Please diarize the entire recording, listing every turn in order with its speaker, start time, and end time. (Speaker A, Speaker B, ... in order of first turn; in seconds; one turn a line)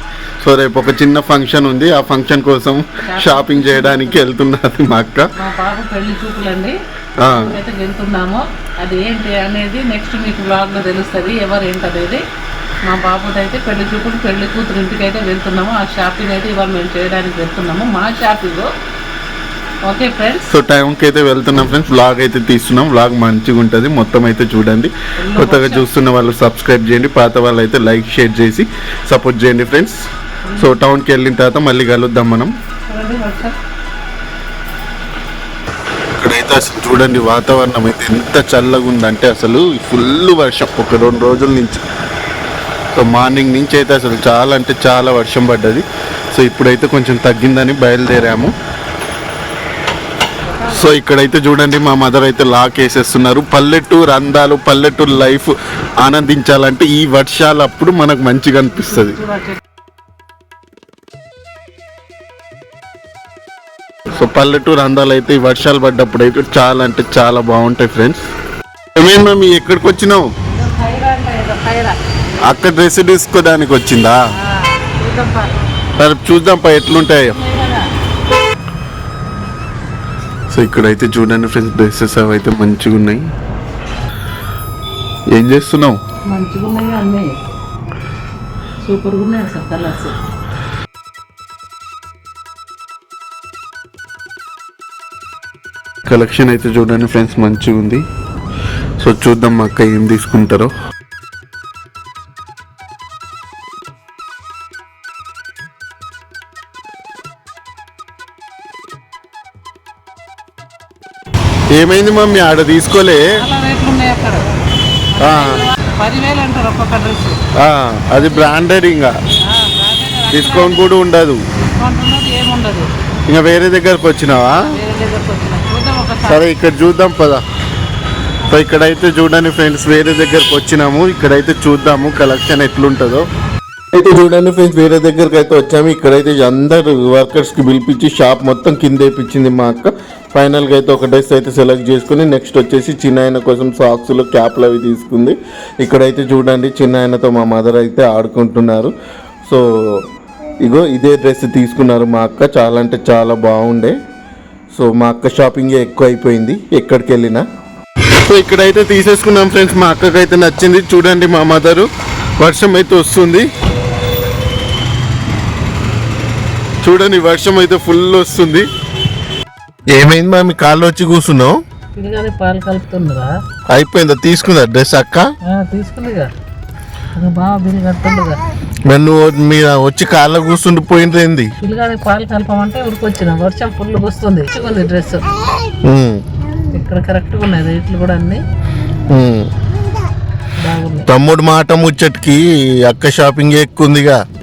Speaker A: 0.4-5.3
Speaker B: 3.0-4.2
Speaker B: 5.4-6.8
Speaker A: 7.2-7.6
Speaker B: 7.3-12.2
Speaker B: 12.9-18.7
Speaker B: 19.9-20.5
Speaker A: 20.5-30.0
Speaker B: 25.2-25.9
Speaker B: 30.5-30.8
Speaker A: 30.6-32.5
Speaker B: 32.9-33.6
Speaker A: 36.2-41.8
Speaker A: 42.9-48.5
Speaker B: 50.5-50.8
Speaker A: 50.6-59.2
Speaker B: 59.2-59.6
Speaker A: 64.1-68.2
Speaker A: 69.0-70.3
Speaker B: 70.5-72.0
Speaker A: 72.4-74.2
Speaker B: 74.4-75.5
Speaker A: 76.0-77.4
Speaker B: 77.3-77.9
Speaker A: 80.5-83.3
Speaker A: 85.3-86.0
Speaker B: 86.3-87.3
Speaker B: 88.8-90.2
Speaker A: 96.1-98.0
Speaker A: 99.0-100.7
Speaker A: 111.7-113.2
Speaker B: 113.4-114.5
Speaker B: 115.1-117.4
Speaker A: 115.2-115.6
Speaker A: 117.6-119.1
Speaker B: 119.4-120.8
Speaker A: 120.3-121.4
Speaker B: 121.5-122.9
Speaker A: 123.3-124.7
Speaker B: 124.7-126.5
Speaker A: 126.3-127.4
Speaker A: 128.5-133.2
Speaker A: 133.9-148.9
Speaker A: 149.4-150.0
Speaker A: 150.6-153.9
Speaker A: 154.7-157.4
Speaker A: 158.2-161.9
Speaker A: 162.4-163.4
Speaker A: 166.8-168.7
Speaker A: 169.9-171.6
Speaker B: 171.9-173.3
Speaker A: 173.7-175.3
Speaker B: 175.4-176.3
Speaker B: 177.1-178.4
Speaker A: 178.9-181.5
Speaker B: 181.6-185.3
Speaker A: 185.8-186.2
Speaker B: 186.7-188.4
Speaker A: 189.1-189.5
Speaker B: 190.6-191.1
Speaker A: 191.1-194.2